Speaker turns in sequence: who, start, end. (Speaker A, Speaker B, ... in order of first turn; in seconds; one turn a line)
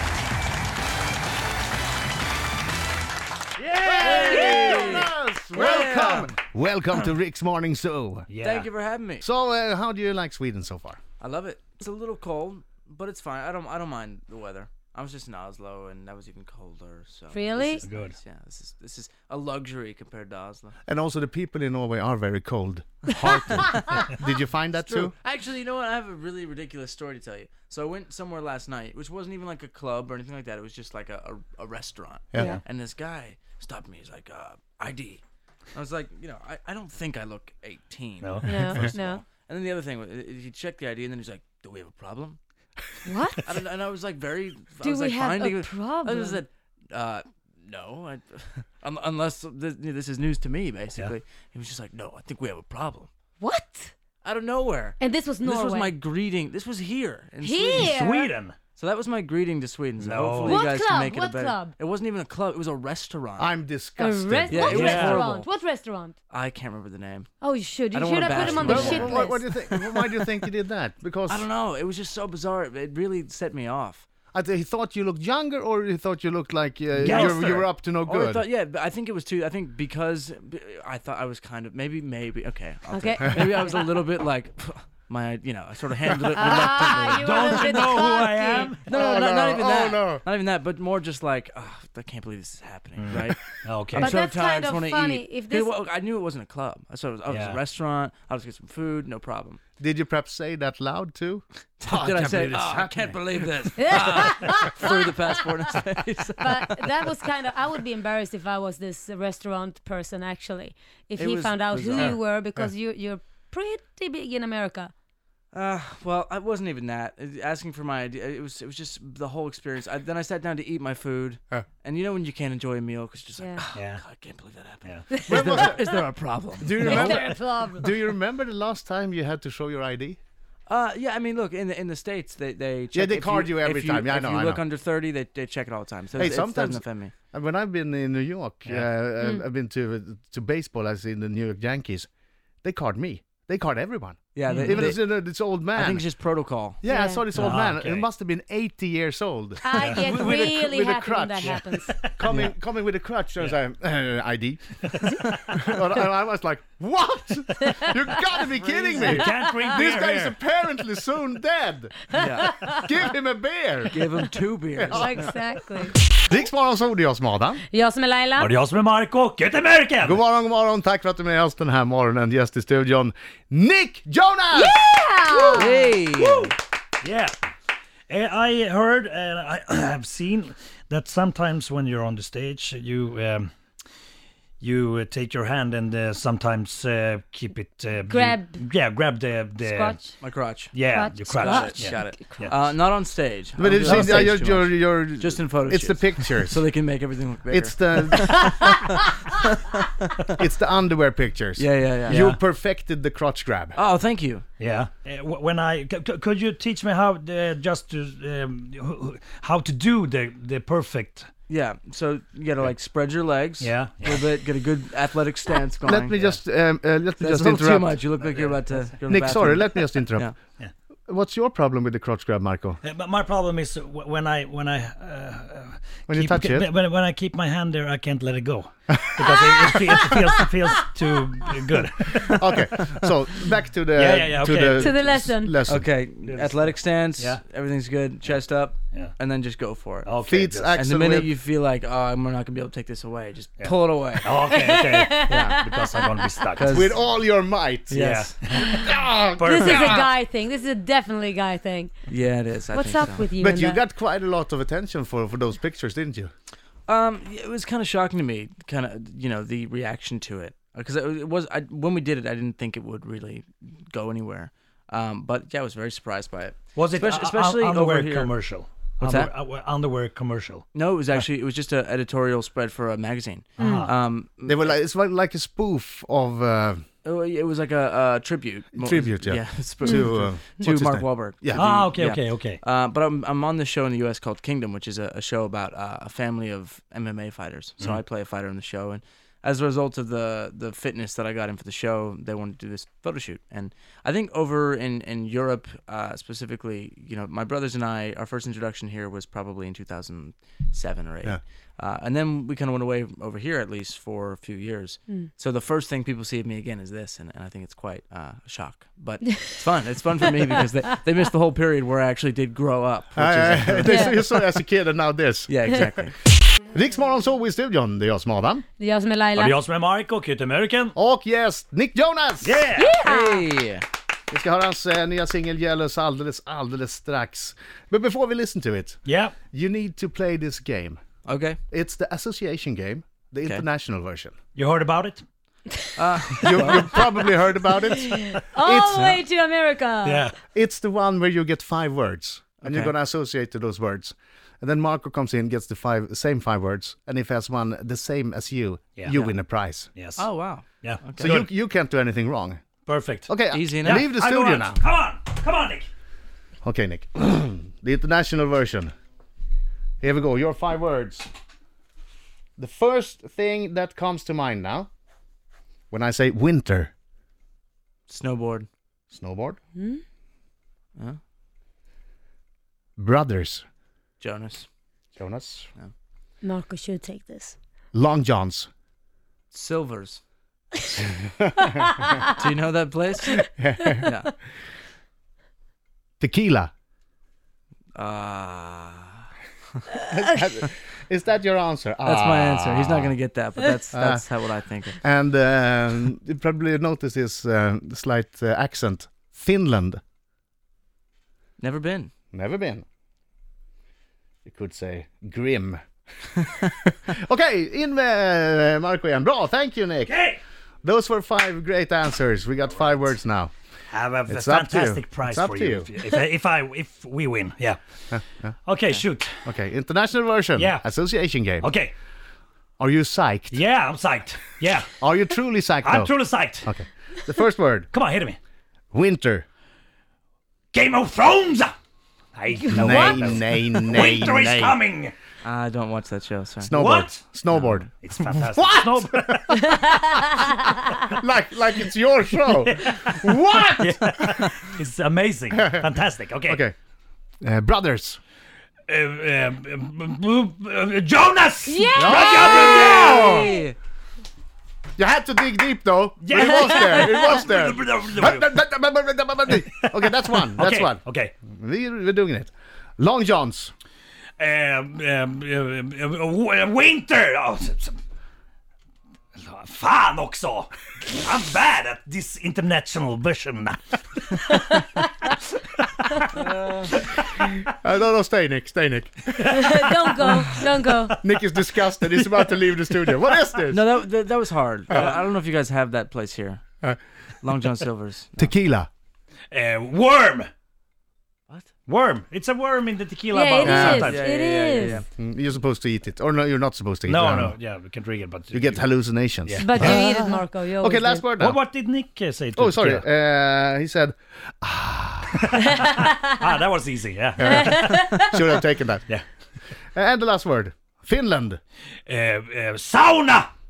Speaker A: 3.7-5.0
Speaker B: 3.8-6.4
Speaker C: 3.9-8.3
Speaker A: 8.3-8.7
Speaker B: 8.4-9.3
Speaker C: 9.2-11.0
Speaker B: 11.2-20.8
Speaker D: 17.3-17.8
Speaker A: 17.8-18.1
Speaker C: 20.9-25.1
Speaker B: 24.7-35.2
Speaker C: 32.3-32.6
Speaker D: 32.3-32.6
Speaker B: 35.7-42.4
Speaker A: 38.2-39.0
Speaker D: 38.4-39.2
Speaker D: 43.0-43.5
Speaker B: 43.4-53.1
Speaker D: 44.8-46.4
Speaker D: 53.4-53.9
Speaker B: 54.2-58.0
Speaker D: 55.0-55.9
Speaker D: 57.4-58.3
Speaker A: 57.8-58.5
Speaker B: 58.8-63.5
Speaker A: 60.0-60.6
Speaker D: 60.4-61.8
Speaker C: 63.4-65.2
Speaker D: 64.0-66.2
Speaker B: 64.5-65.5
Speaker A: 64.8-65.2
Speaker B: 66.3-67.3
Speaker D: 67.4-69.7
Speaker B: 67.9-70.0
Speaker C: 68.4-71.5
Speaker B: 71.3-74.1
Speaker C: 74.3-78.5
Speaker A: 77.0-77.7
Speaker B: 77.0-77.5
Speaker B: 78.0-88.0
Speaker D: 82.9-84.0
Speaker D: 86.4-88.7
Speaker A: 87.1-88.9
Speaker B: 88.6-99.6
Speaker C: 88.9-90.2
Speaker A: 93.0-94.1
Speaker D: 94.0-95.7
Speaker A: 97.3-97.6
Speaker C: 99.8-103.3
Speaker B: 101.8-106.9
Speaker D: 103.8-105.1
Speaker D: 106.4-114.9
Speaker B: 111.2-112.2
Speaker B: 115.5-127.2
Speaker D: 123.4-123.6
Speaker A: 123.7-124.0
Speaker D: 125.1-125.8
Speaker C: 125.3-125.9
Speaker C: 126.6-130.2
Speaker D: 126.7-128.0
Speaker B: 130.7-137.1
Speaker C: 132.9-134.6
Speaker C: 136.2-142.1
Speaker A: 138.7-138.9
Speaker D: 139.2-139.4
Speaker C: 142.6-146.1
Speaker B: 144.3-145.0
Speaker A: 144.5-144.9
Speaker B: 145.7-146.8
Speaker C: 146.8-154.7
Speaker D: 146.9-147.4
Speaker A: 147.3-148.1
Speaker D: 149.6-151.9
Speaker A: 149.8-150.7
Speaker A: 151.4-152.1
Speaker B: 152.2-152.5
Speaker C: 155.3-162.1
Speaker D: 157.6-158.1
Speaker B: 158.4-159.2
Speaker A: 159.0-160.4
Speaker D: 159.2-159.8
Speaker D: 162.1-163.0
Speaker B: 162.1-162.6
Speaker C: 162.7-164.0
Speaker B: 163.9-165.3
Speaker C: 164.8-165.3
Speaker D: 164.9-166.0
Speaker C: 166.1-167.6
Speaker D: 167.7-168.5
Speaker A: 168.4-170.2
Speaker C: 170.0-174.9
Speaker D: 174.5-176.0
Speaker B: 175.5-176.6
Speaker A: 176.2-177.3
Speaker A: 178.1-183.5
Speaker A: 184.6-190.1
Speaker D: 188.1-188.6
Speaker D: 189.6-190.2
Speaker B: 190.2-200.4
Speaker A: 190.7-192.7
Speaker D: 190.9-192.3
Speaker C: 193.6-196.6
Speaker A: 193.9-194.2
Speaker C: 197.5-198.5
Speaker D: 198.2-198.8
Speaker C: 200.4-203.8
Speaker B: 201.6-202.2
Speaker A: 202.1-202.4
Speaker B: 203.8-204.4
Speaker A: 204.6-211.3
Speaker B: 211.5-216.2
Speaker A: 213.6-214.2
Speaker C: 215.8-218.0
Speaker B: 217.2-220.3
Speaker C: 219.1-220.3
Speaker C: 221.1-222.8
Speaker A: 222.8-232.7
Speaker C: 226.1-226.7
Speaker C: 232.4-235.9
Speaker A: 233.9-234.9
Speaker D: 234.8-235.6
Speaker B: 235.7-240.1
Speaker A: 236.2-237.4
Speaker A: 240.1-240.7
Speaker C: 240.3-241.3
Speaker B: 240.7-244.4
Speaker A: 243.6-247.0
Speaker D: 244.4-246.4
Speaker B: 246.6-246.9
Speaker C: 246.7-248.0
Speaker B: 247.9-248.4
Speaker A: 247.9-250.1
Speaker C: 248.7-250.0
Speaker D: 249.4-251.9
Speaker B: 252.1-253.3
Speaker D: 252.7-253.8
Speaker C: 253.4-256.3
Speaker B: 256.9-268.3
Speaker A: 266.8-270.6
Speaker B: 269.0-269.3
Speaker B: 270.7-274.8
Speaker A: 273.6-273.9
Speaker D: 273.6-273.9
Speaker C: 274.5-276.8
Speaker B: 277.0-314.1
Speaker C: 278.8-281.7
Speaker D: 279.8-280.1
Speaker A: 281.5-282.6
Speaker C: 313.2-315.6
Speaker D: 313.8-314.5
Speaker B: 315.5-316.1
Speaker C: 316.7-318.6
Speaker D: 318.8-319.6
Speaker A: 319.3-320.9
Speaker C: 321.0-322.7
Speaker A: 322.4-322.9
Speaker D: 322.7-323.5
Speaker B: 323.0-323.9
Speaker C: 324.3-331.0
Speaker A: 329.1-329.4
Speaker B: 331.2-331.6
Speaker C: 331.7-334.3
Speaker A: 334.6-335.2
Speaker B: 336.0-336.9
Speaker C: 336.4-339.2
Speaker D: 336.4-337.1
Speaker D: 337.9-340.3
Speaker A: 340.1-340.4
Speaker C: 340.5-349.9
Speaker B: 342.6-342.9
Speaker B: 349.1-349.4
Speaker A: 349.9-350.3
Speaker B: 350.2-351.3
Speaker A: 350.8-351.5
Speaker C: 351.2-352.6
Speaker A: 352.9-355.9
Speaker C: 353.3-354.8
Speaker B: 353.5-354.1
Speaker C: 356.6-358.9
Speaker C: 360.0-361.3
Speaker C: 362.6-364.9
Speaker C: 365.9-366.9
Speaker B: 368.1-368.7
Speaker C: 369.1-369.6
Speaker D: 369.8-370.0
Speaker C: 373.0-373.6
Speaker B: 374.2-374.7
Speaker C: 375.2-375.7
Speaker D: 376.4-377.6
Speaker C: 377.9-378.7
Speaker B: 379.5-380.2
Speaker D: 381.8-382.2
Speaker B: 382.3-383.5
Speaker C: 383.6-384.1
Speaker B: 384.0-384.3
Speaker C: 386.2-386.7
Speaker B: 387.9-389.8
Speaker C: 390.1-393.1
Speaker B: 392.0-395.0
Speaker C: 393.9-394.2
Speaker C: 395.0-400.0
Speaker B: 401.6-402.1
Speaker C: 402.3-402.9
Speaker C: 404.5-405.8
Speaker B: 406.5-406.7
Speaker C: 407.1-410.2
Speaker A: 410.1-410.4
Speaker C: 410.8-413.5
Speaker A: 413.9-417.8
Speaker C: 414.3-415.9
Speaker C: 418.1-418.5
Speaker A: 418.7-419.3
Speaker C: 419.4-421.7
Speaker A: 420.6-420.9
Speaker A: 421.6-421.9
Speaker C: 422.8-423.6
Speaker A: 423.5-425.0
Speaker C: 425.0-427.9
Speaker A: 425.8-426.8
Speaker A: 427.9-428.4
Speaker C: 428.9-429.4
Speaker A: 430.7-431.7
Speaker A: 432.4-435.1
Speaker D: 432.5-433.3
Speaker C: 432.7-434.8
Speaker B: 435.4-436.7
Speaker C: 436.6-439.6
Speaker A: 436.7-437.2
Speaker B: 437.5-437.9
Speaker A: 438.0-440.0
Speaker D: 439.6-440.7
Speaker C: 441.2-444.1
Speaker A: 442.7-446.6
Speaker C: 445.5-445.9
Speaker C: 446.5-446.8
Speaker C: 447.4-448.2
Speaker A: 448.9-453.4
Speaker D: 451.6-453.7
Speaker C: 451.9-453.5
Speaker B: 452.8-453.8
Speaker C: 455.0-463.7
Speaker A: 456.2-458.5
Speaker D: 456.6-457.3
Speaker A: 459.5-461.3
Speaker A: 464.4-468.0
Speaker A: 469.4-476.5
Speaker B: 476.3-476.9
Speaker C: 477.8-479.3
Speaker A: 479.3-481.6
Speaker D: 479.4-481.2
Speaker C: 481.2-483.9
Speaker B: 483.7-486.6
Speaker C: 484.9-485.2
Speaker B: 487.4-488.6
Speaker C: 488.4-488.9
Speaker A: 489.5-490.5
Speaker A: 491.9-494.2
Speaker D: 493.3-495.0
Speaker C: 493.6-494.1
Speaker B: 493.8-495.1
Speaker C: 495.1-497.6
Speaker A: 497.1-498.9
Speaker C: 498.5-500.1
Speaker A: 499.4-500.4
Speaker D: 499.6-501.3
Speaker C: 500.8-501.6
Speaker A: 501.3-503.0
Speaker C: 502.6-505.3
Speaker A: 505.4-508.1
Speaker D: 505.7-506.2
Speaker C: 507.4-509.1
Speaker D: 507.5-508.3
Speaker C: 509.9-511.6
Speaker A: 512.1-513.5